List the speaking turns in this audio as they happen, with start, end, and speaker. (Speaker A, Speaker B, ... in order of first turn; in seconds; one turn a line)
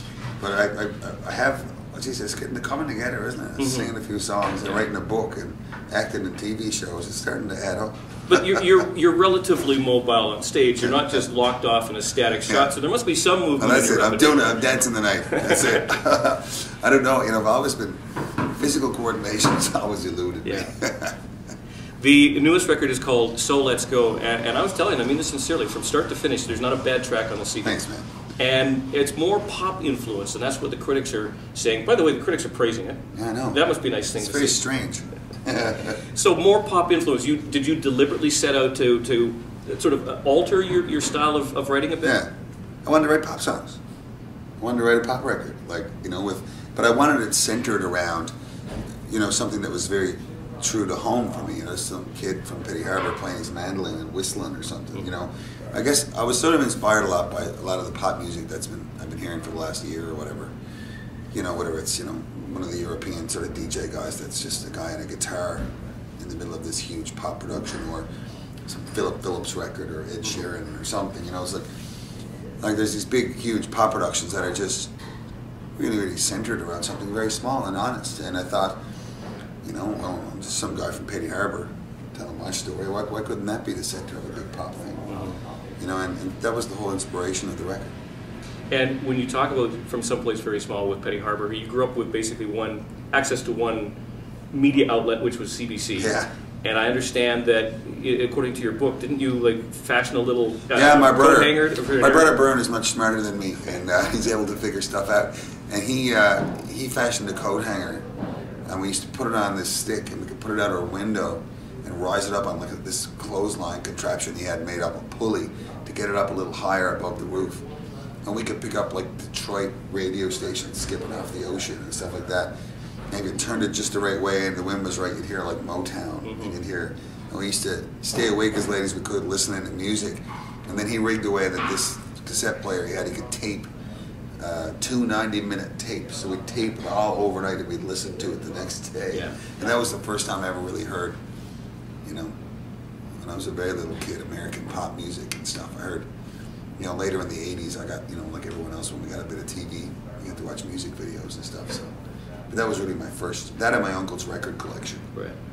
Speaker A: 0.4-8.6
Speaker B: 3.6-3.9
Speaker B: 8.3-14.7
Speaker A: 10.8-11.2
Speaker A: 12.5-12.7
Speaker A: 13.6-21.1
Speaker B: 15.3-15.7
Speaker B: 20.4-20.7
Speaker B: 22.0-27.8
Speaker A: 27.6-28.1
Speaker B: 28.4-33.0
Speaker A: 33.1-33.7
Speaker B: 33.5-34.6
Speaker A: 34.2-36.0
Speaker B: 36.1-42.2
Speaker A: 42.0-42.3
Speaker A: 42.9-43.8
Speaker A: 44.6-48.3
Speaker A: 49.1-60.5
Speaker A: 61.3-65.7
Speaker A: 66.2-68.1
Speaker A: 68.7-71.7
Speaker A: 72.6-74.9
Speaker A: 75.8-78.8
Speaker A: 79.6-87.9
Speaker B: 85.1-85.4
Speaker B: 88.7-94.0
Speaker B: 94.5-102.3
Speaker A: 96.0-96.3
Speaker A: 100.7-108.0
Speaker A: 108.7-117.7
Speaker A: 118.2-122.5
Speaker A: 123.1-133.7
Speaker B: 126.2-126.6
Speaker A: 134.4-141.2
Speaker B: 139.1-139.4
Speaker A: 142.1-142.3
Speaker A: 143.2-146.1
Speaker A: 146.8-151.9
Speaker A: 152.5-155.1